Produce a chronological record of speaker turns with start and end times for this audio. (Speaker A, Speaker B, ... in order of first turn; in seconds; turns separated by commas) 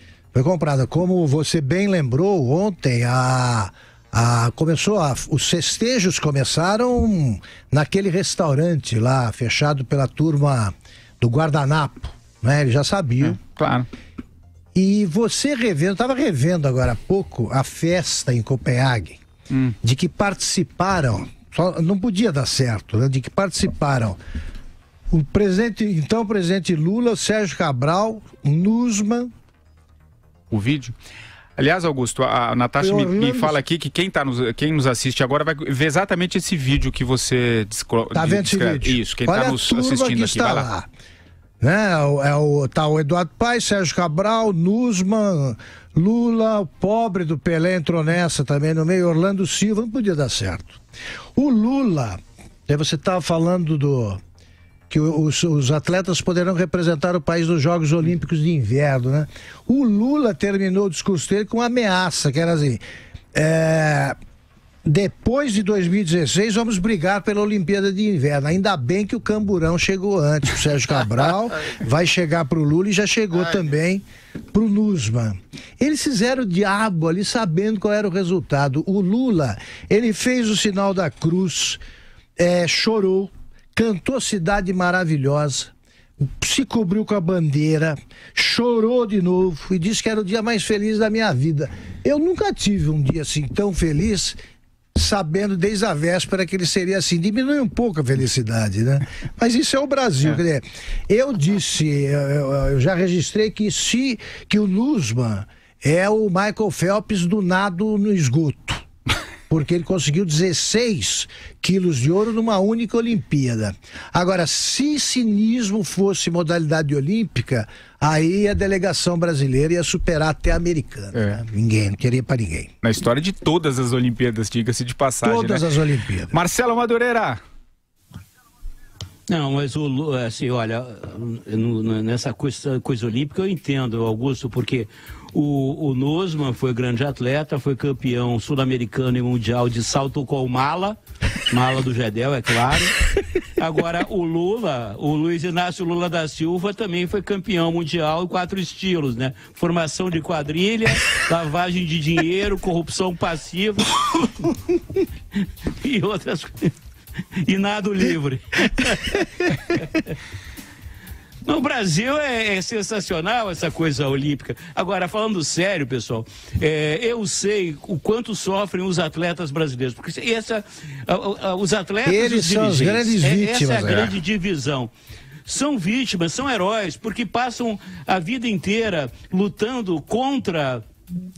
Speaker A: 0.3-13.4, Speaker B: 13.2-13.9, Speaker A: 14.8-19.2, Speaker B: 19.5-19.8, Speaker A: 19.8-24.2, Speaker A: 25.1-29.3, Speaker B: 30.5-30.9, Speaker B: 31.6-40.7, Speaker A: 32.8-33.6, Speaker A: 38.1-40.9, Speaker A: 41.6-50.8, Speaker A: 51.3-54.2, Speaker A: 54.9-62.8, Speaker A: 63.3-64.2, Speaker A: 64.9-81.8, Speaker A: 82.4-94.4, Speaker A: 95.0-108.8, Speaker A: 109.5-122.7, Speaker B: 121.1-121.4, Speaker B: 122.8-125.6, Speaker A: 125.2-126.3, Speaker B: 126.3-127.4, Speaker C: 129.3-156.7, Speaker C: 157.4-160.1, Speaker C: 161.4-174.9, Speaker A: 172.1-174.1, Speaker C: 175.4-180.8